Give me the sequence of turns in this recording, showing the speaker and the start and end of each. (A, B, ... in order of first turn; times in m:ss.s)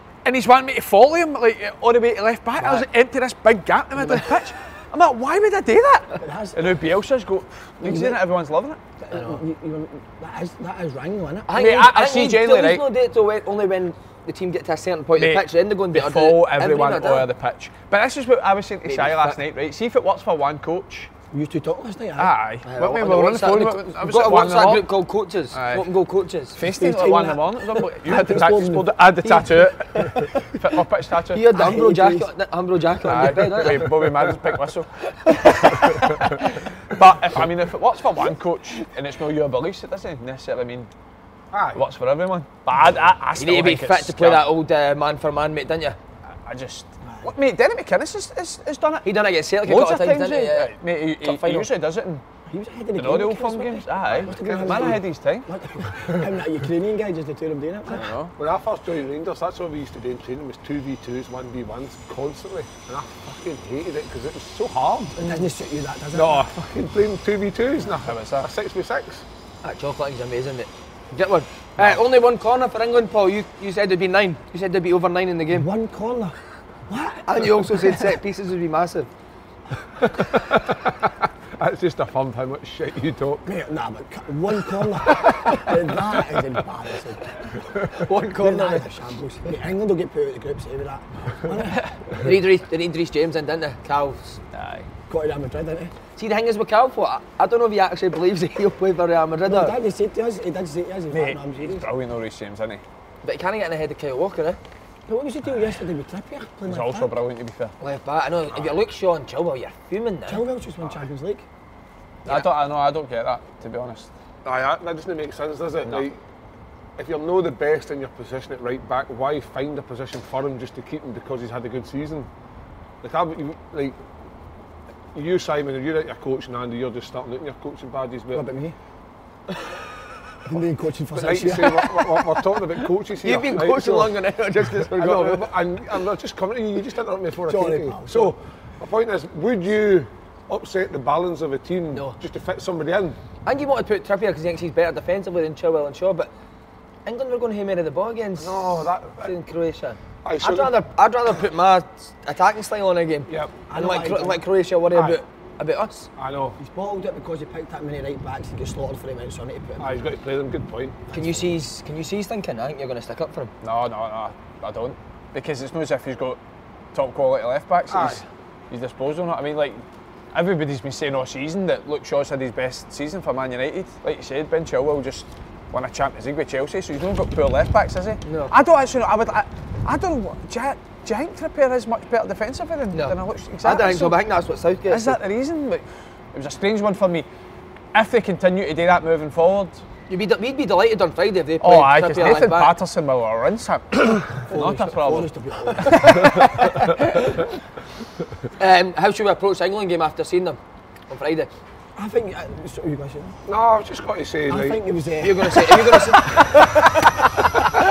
0:00.2-0:08.8 A
0:02.6-0:02.8 B
0:04.0-0:04.3 B
0:06.2-0:06.8 C
0:07.8-0:08.2 C
0:09.0-0:11.6 C
0:09.1-0:09.4 B
0:11.5-0:17.3 B
0:11.5-0:12.9 A
0:15.2-0:21.1 A
0:18.9-0:19.4 B
0:21.3-0:22.3 C
0:22.2-0:24.9 A
0:22.7-0:26.6 B
0:25.5-0:25.9 A
0:26.6-0:31.5 A
0:26.6-0:28.9 C
0:29.2-0:30.2 B
0:31.3-0:34.1 B
0:31.5-0:32.3 C
0:33.0-0:40.9 A
0:35.3-0:35.9 B
0:41.5-0:41.8 D
0:41.7-0:44.5 A
0:43.4-0:46.0 B
0:46.4-0:49.1 A
0:47.0-0:47.3 C
0:49.0-0:51.7 B
0:49.6-0:52.2 A
0:52.5-0:58.1 C
0:53.0-0:55.5 A
0:54.2-0:55.0 D
0:57.9-0:58.3 A
0:58.4-1:05.3 D
1:05.2-1:06.5 C
1:06.1-1:09.2 D
1:07.9-1:08.5 A
1:09.6-1:15.7 B
1:15.5-1:16.4 C
1:16.9-1:18.0 C
1:17.3-1:19.1 B
1:20.0-1:23.5 D
1:23.5-1:32.3 C
1:25.2-1:25.6 D
1:27.9-1:28.9 B
1:32.2-1:34.4 B
1:34.5-1:34.9 A
1:35.1-1:35.9 C
1:36.2-1:39.7 B
1:39.5-1:41.9 C
1:41.1-1:42.8 A
1:43.2-1:44.6 B
1:45.1-1:47.1 C
1:46.7-1:47.8 A
1:47.8-1:50.4 B
1:50.3-1:51.4 C
1:52.2-1:54.1 A
1:54.4-1:56.2 D
1:57.0-2:02.3 D
2:03.0-2:04.0 D
2:05.1-2:08.4 D
2:08.3-2:08.8 C
2:10.4-2:12.2 C
2:11.1-2:14.1 D
2:13.2-2:15.5 B
2:14.9-2:23.2 D
2:17.5-2:18.4 C
2:23.4-2:26.3 B
2:27.1-2:36.1 B
2:28.4-2:29.3 D
2:30.2-2:30.7 D
2:33.3-2:33.6 D
2:33.7-2:34.4 C
2:34.9-2:35.2 D
2:36.2-2:36.6 D
2:36.6-2:40.0 C
2:39.8-2:41.1 D
2:41.1-2:41.5 C
2:41.1-2:43.5 B
2:43.6-2:46.4 A
2:46.9-3:04.2 A
2:47.9-2:48.2 D
2:58.2-2:58.5 B
3:02.9-3:05.2 B
3:04.9-3:07.3 A
3:07.9-3:09.8 A
3:10.1-3:12.7 B
3:11.6-3:17.0 A
3:14.5-3:16.7 C
3:18.6-3:20.6 B
3:21.1-3:21.5 B
3:22.0-3:23.4 C
3:23.5-3:24.8 D
3:24.5-3:27.6 C
3:25.2-3:26.4 B